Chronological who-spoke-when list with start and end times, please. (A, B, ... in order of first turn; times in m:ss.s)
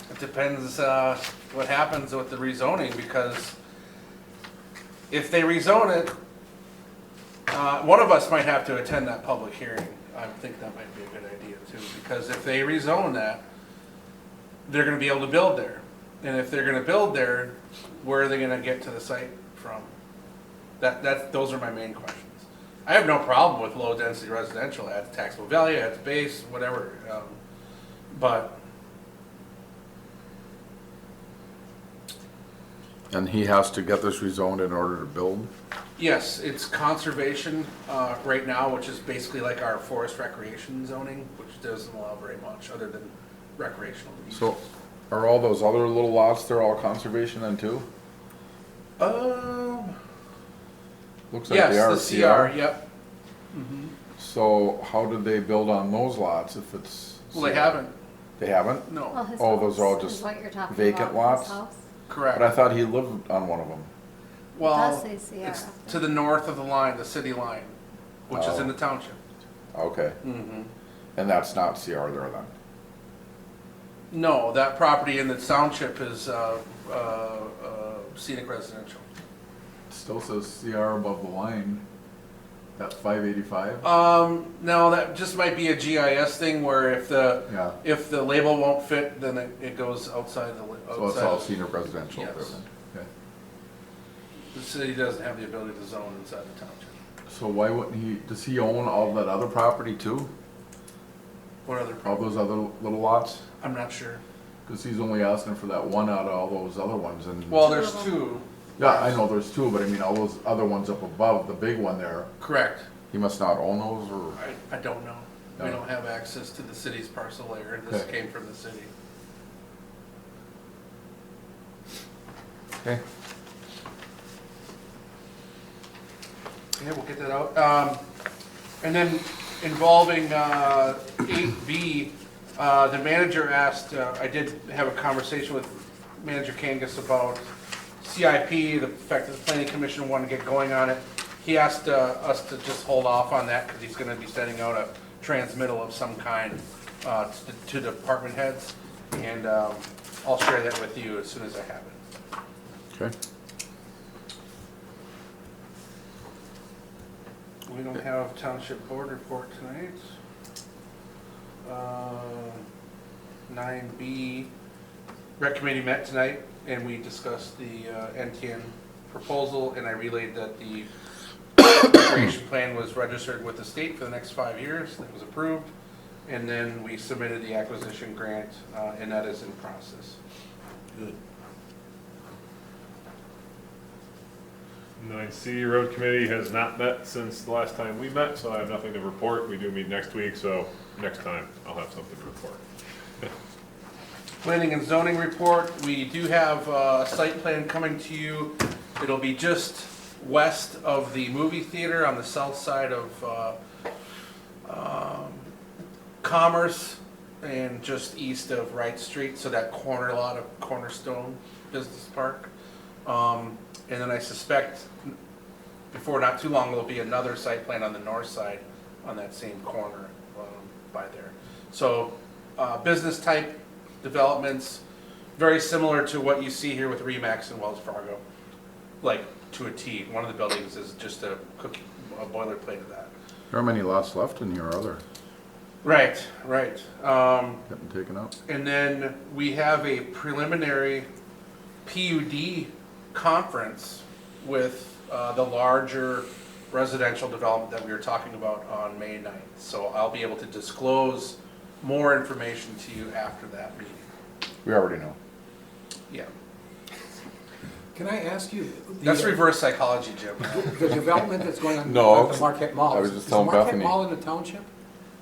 0:00.1-0:03.6 A
0:05.1-0:06.1 A
0:07.5-0:13.4 A
0:14.7-0:19.9 A
0:20.8-0:27.4 A
0:28.1-0:28.6 A
0:33.1-0:35.5 B
0:36.0-0:44.6 A
0:44.3-0:47.9 B
0:49.0-0:49.9 A
0:51.3-0:52.6 B
0:51.5-0:52.8 A
0:53.5-0:53.9 A
0:54.2-0:57.8 B
0:57.3-0:57.9 A
0:58.4-1:01.6 B
0:58.9-0:59.2 A
0:59.1-1:01.8 C
1:02.1-1:02.5 A
1:02.3-1:03.9 B
1:04.6-1:07.8 A
1:04.6-1:06.0 C
1:08.3-1:09.2 A
1:08.3-1:08.7 B
1:09.7-1:10.2 B
1:10.2-1:10.7 A
1:11.2-1:12.5 B
1:14.1-1:19.0 A
1:19.9-1:21.8 B
1:22.8-1:23.8 B
1:23.8-1:31.5 A
1:27.5-1:27.8 B
1:30.9-1:33.1 B
1:32.1-1:32.6 A
1:34.5-1:36.9 A
1:37.3-1:40.3 B
1:41.6-1:42.1 A
1:42.0-1:43.4 B
1:43.6-1:44.2 A
1:44.7-1:47.7 B
1:47.5-1:49.2 A
1:47.6-1:48.2 C
1:48.8-1:52.3 B
1:52.4-1:52.9 A
1:53.1-1:54.4 B
1:54.4-1:58.9 A
2:06.8-2:08.0 A
2:08.8-2:17.5 A
2:18.0-2:32.0 A
2:37.7-2:40.0 A
2:41.6-2:42.6 A
2:43.5-2:44.5 A
2:45.4-2:50.9 A
2:51.6-2:55.7 A
2:56.3-3:00.2 A
3:05.0-3:12.6 D
3:14.4-3:23.6 A
3:24.6-3:25.5 A
3:26.2-3:32.5 A
3:33.1-3:35.2 A
3:35.9-3:44.8 A
3:45.4-3:48.2 A
3:49.0-3:53.1 A
3:53.5-3:55.0 B
3:55.8-3:57.6 A
3:57.7-3:58.3 B
3:58.5-4:01.1 A
4:01.8-4:14.1 A
4:14.6-4:15.2 B
4:17.9-4:19.6 E
4:19.0-4:21.0 A
4:20.6-4:24.7 E
4:21.8-4:24.0 B